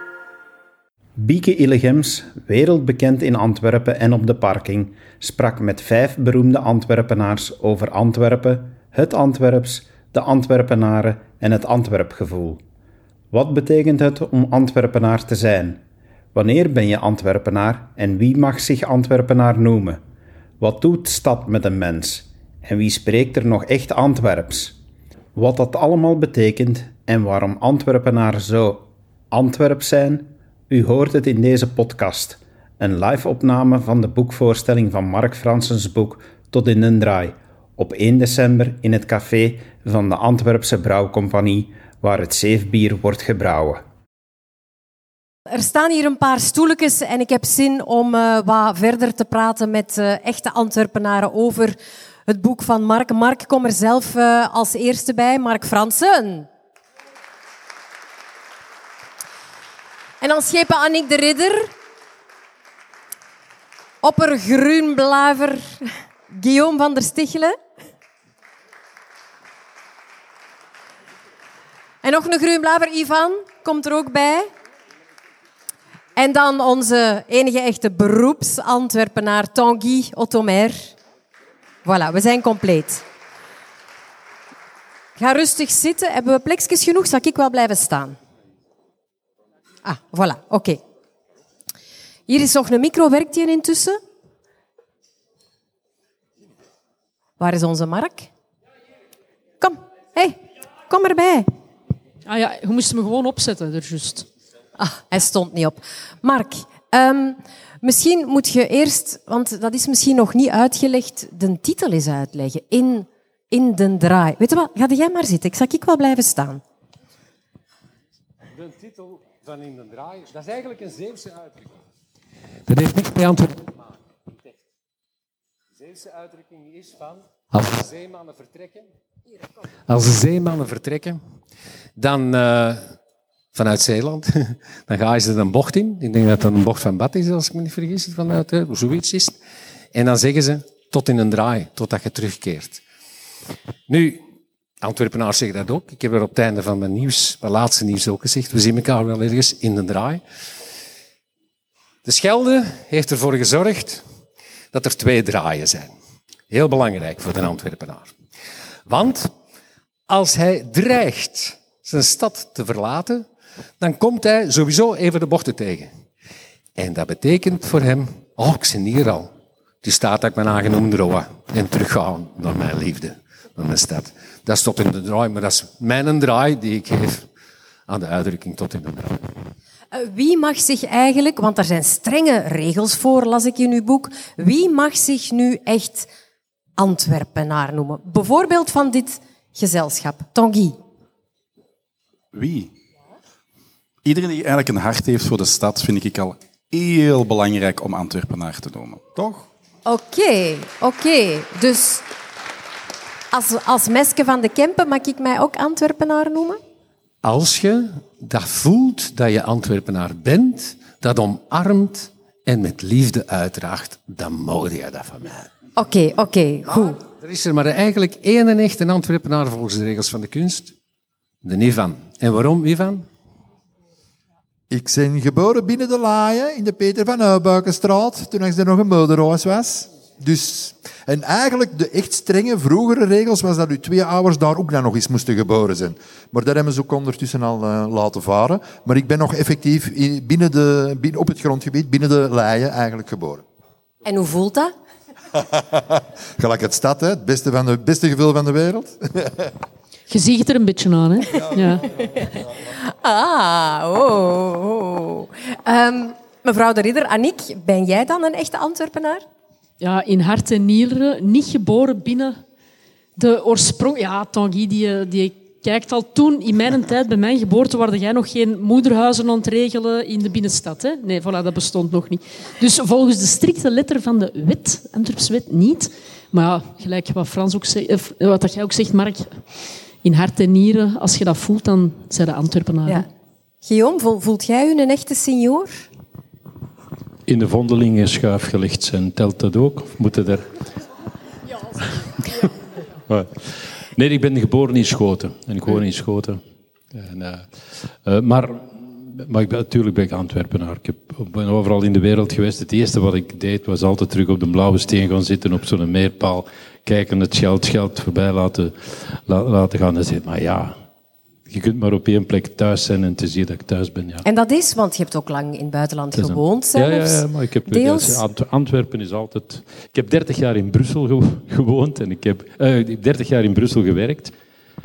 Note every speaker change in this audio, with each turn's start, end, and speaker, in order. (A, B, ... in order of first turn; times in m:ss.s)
0:01.2-0:12.6 A
0:13.3-0:15.8 A
0:16.3-0:20.0 A
0:20.6-0:24.7 A
0:25.4-0:43.8 A
0:45.5-0:56.5 B
1:00.2-1:01.7 B
1:04.0-1:07.5 B
1:12.0-1:14.5 B
1:16.2-1:21.0 B
1:21.8-1:23.0 B
1:25.2-1:28.2 B
1:29.8-1:30.8 B
1:32.3-1:34.0 B
1:37.4-1:38.3 B
1:39.6-1:41.5 B
1:42.2-1:44.3 C
1:44.8-1:56.6 B
1:58.5-2:01.7 D
2:02.7-2:03.8 D
2:05.8-2:08.8 D
2:09.9-2:11.2 D
2:12.0-2:12.8 D
2:13.5-2:19.4 D
2:19.9-2:22.8 D
2:23.9-2:24.2 D
2:24.8-2:30.2 D
2:32.0-2:34.0 D
2:34.7-2:35.9 D
2:36.5-2:38.1 D
2:38.9-2:39.3 D
2:40.1-2:43.2 D
2:43.8-2:45.9 D
2:46.8-2:49.3 D
2:49.8-2:57.2 D
2:57.9-2:59.2 D
2:59.9-3:06.1 B
3:06.8-3:10.8 B
3:12.3-3:12.7 E
3:14.0-3:19.4 E
3:19.8-3:22.0 B
3:23.3-3:26.6 B
3:27.2-3:35.5 D
3:35.8-3:37.0 B
3:36.8-3:40.7 D
3:41.4-3:43.0 D
3:44.7-4:03.4 F
4:04.0-4:04.7 B
4:05.3-4:09.5 F
4:10.1-4:11.9 C
4:12.0-4:19.2 B
4:19.8-4:22.4 C
4:23.2-4:39.4 C
4:40.0-4:43.0 C
4:43.6-4:45.8 B
4:47.3-4:50.4 G
4:53.1-4:56.4 G
4:56.9-4:57.5 G
4:58.0-5:10.7 G
5:11.5-5:14.2 G
5:14.2-5:18.2 B
5:16.1-5:24.3 G